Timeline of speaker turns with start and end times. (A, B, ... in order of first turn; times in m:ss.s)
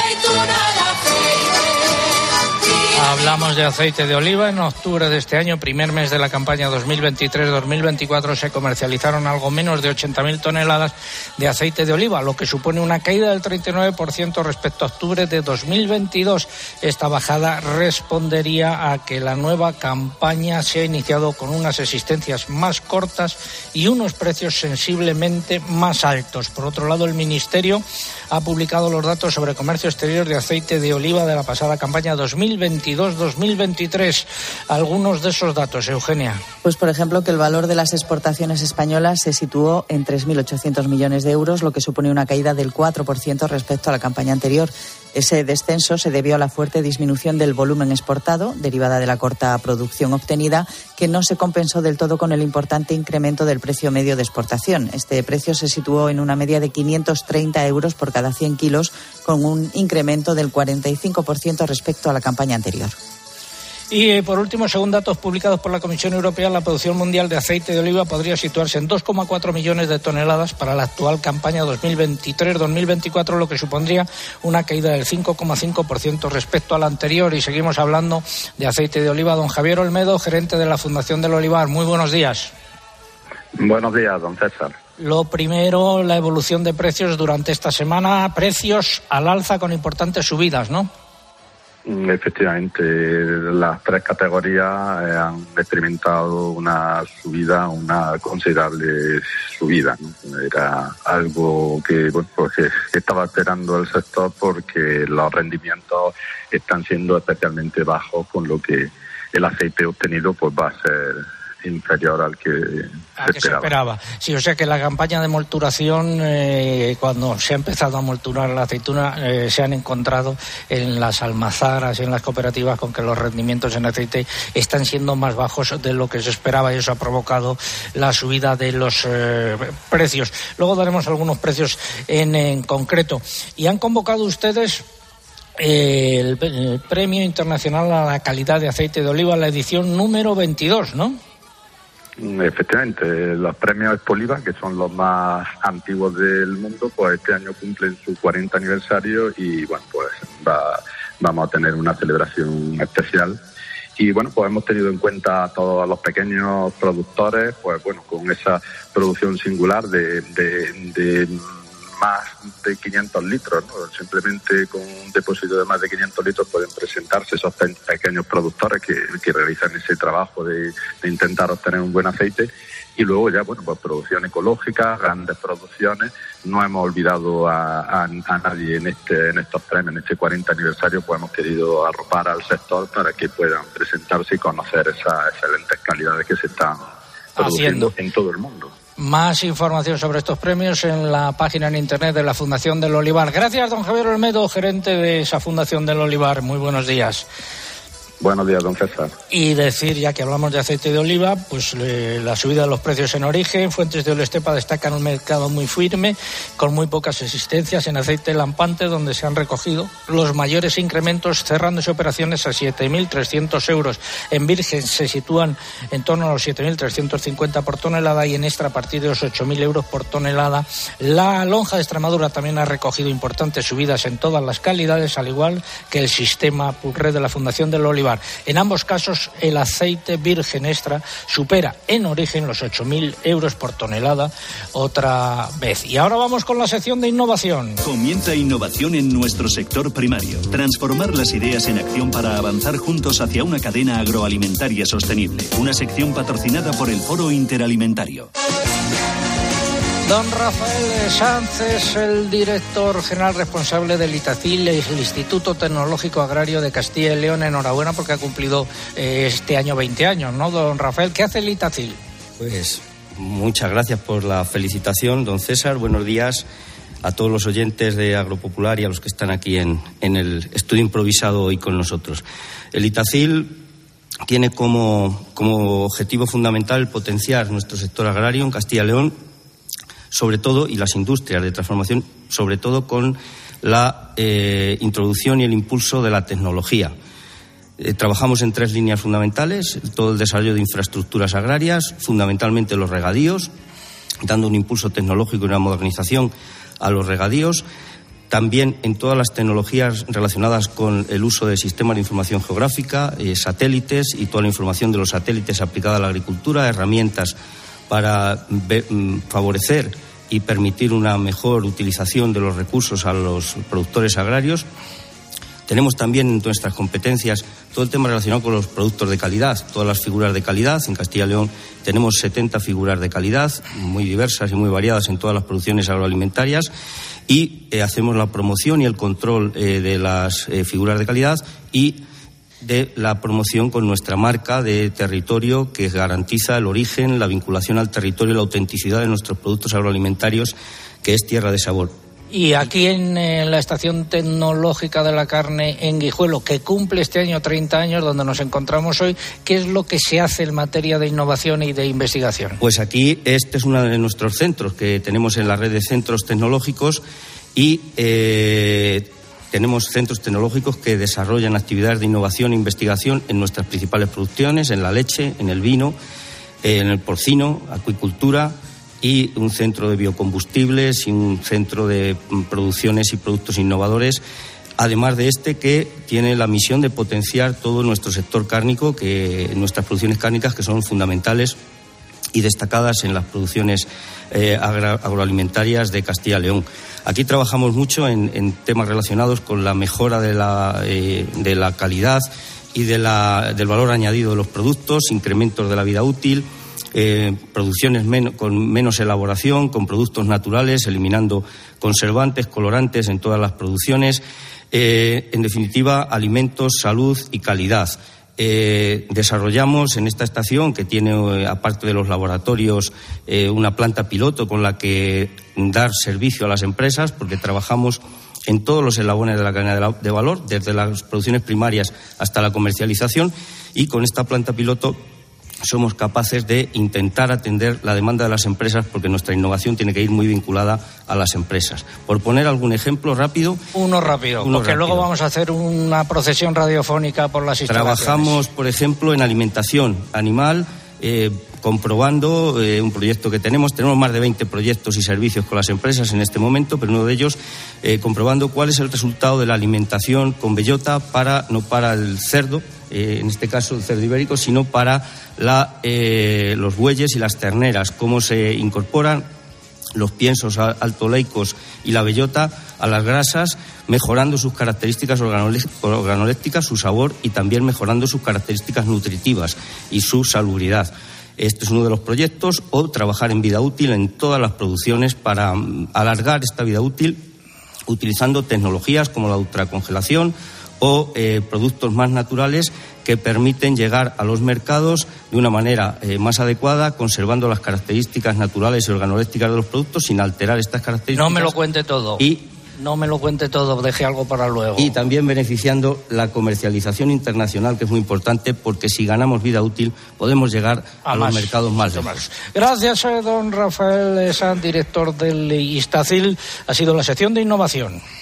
0:02.9-0:36.4 A
0:36.6-1:02.9 B
1:03.9-1:22.5 A
1:23.6-1:24.7 C
1:25.0-1:30.9 A
1:31.8-1:53.7 C
1:53.2-2:14.8 A
2:15.6-2:21.2 A
2:22.2-2:33.4 C
2:34.0-3:06.8 C
3:07.4-3:07.9 A
3:07.4-3:08.7 C
3:09.0-3:17.2 A
3:18.2-3:19.1 C
3:19.3-3:57.8 A
3:57.8-4:08.3 D
4:10.0-4:22.0 A
4:22.4-4:26.4 E
4:27.0-4:33.6 E
4:34.2-4:39.2 E
4:40.1-4:46.9 E
4:47.8-4:53.5 E
4:54.2-4:57.6 E
4:58.3-5:07.3 E
5:07.9-5:14.6 E
5:15.7-5:26.7 E
5:27.3-5:32.0 E
5:32.6-5:41.9 E
5:42.3-5:52.6 A
5:52.6-5:57.0 E
5:57.5-6:06.0 E
6:06.6-6:14.2 E
6:14.8-6:21.6 E
6:22.3-7:05.0 E
7:05.6-7:13.6 E
7:13.7-7:18.4 A
7:14.4-7:15.0 E
7:17.7-7:39.3 E
7:39.9-7:57.2 E
7:57.9-8:11.5 E
8:11.1-8:14.9 A
8:12.2-8:12.4 E
8:14.8-8:22.1 E
8:21.0-8:28.0 A